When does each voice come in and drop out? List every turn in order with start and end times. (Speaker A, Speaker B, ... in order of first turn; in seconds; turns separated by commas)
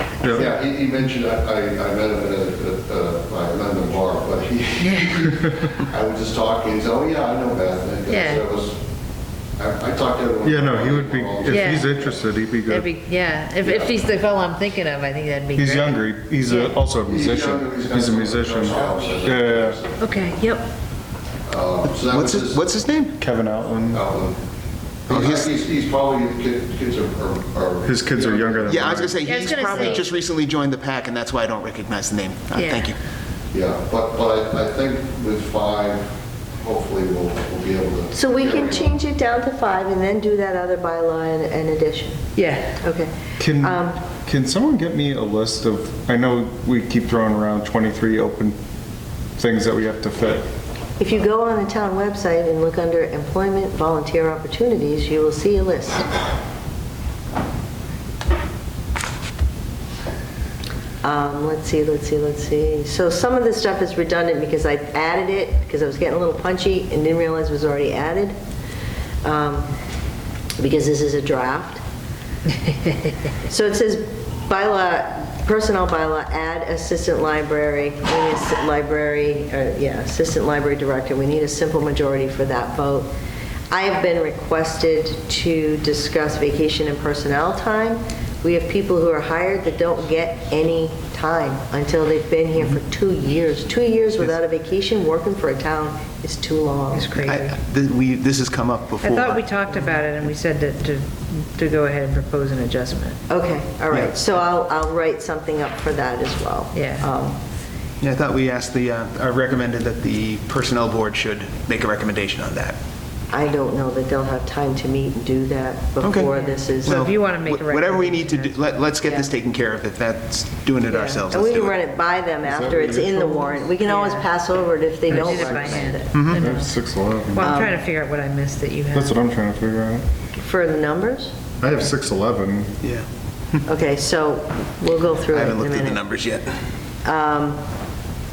Speaker A: 0.2-0.6, Speaker B: 0.3-8.8, Speaker C: 4.8-5.2, Speaker A: 5.3-5.6, Speaker C: 8.1-8.4, Speaker B: 9.6-12.2, Speaker A: 10.4-12.9, Speaker C: 11.5-12.0, Speaker C: 12.7-16.7, Speaker B: 13.6-13.9, Speaker A: 15.6-19.8, Speaker B: 17.0-20.1, Speaker C: 20.0-20.7, Speaker B: 21.5-22.8, Speaker D: 21.8-23.2, Speaker A: 23.2-24.0, Speaker B: 23.9-24.4, Speaker B: 25.1-28.7, Speaker D: 25.1-25.5, Speaker A: 27.8-29.2, Speaker D: 28.6-32.9, Speaker C: 29.2-30.1, Speaker C: 32.5-32.9, Speaker B: 33.5-38.9, Speaker E: 38.1-42.2, Speaker C: 42.4-42.7, Speaker E: 42.8-44.0, Speaker A: 43.4-48.6, Speaker A: 49.4-50.4, Speaker E: 51.0-56.1, Speaker E: 61.0-68.3, Speaker E: 69.2-69.7, Speaker E: 70.6-71.8, Speaker E: 73.4-83.1, Speaker E: 83.7-97.1, Speaker C: 96.9-97.5, Speaker D: 97.2-99.5, Speaker C: 99.0-103.2, Speaker E: 103.3-107.4, Speaker C: 106.7-107.0, Speaker D: 108.0-112.8, Speaker E: 113.3-117.0, Speaker D: 116.0-116.3, Speaker C: 116.2-118.5, Speaker D: 116.8-121.8, Speaker E: 119.0-119.3, Speaker E: 120.9-126.1, Speaker A: 122.4-123.6, Speaker C: 123.7-124.3, Speaker C: 125.1-126.7, Speaker D: 126.1-126.4, Speaker A: 126.3-127.5, Speaker C: 127.3-129.2, Speaker E: 127.4-127.8, Speaker A: 128.9-130.0, Speaker E: 130.4-131.3, Speaker A: 131.6-132.7, Speaker E: 133.6-136.0, Speaker D: 135.3-136.5, Speaker E: 137.0-137.6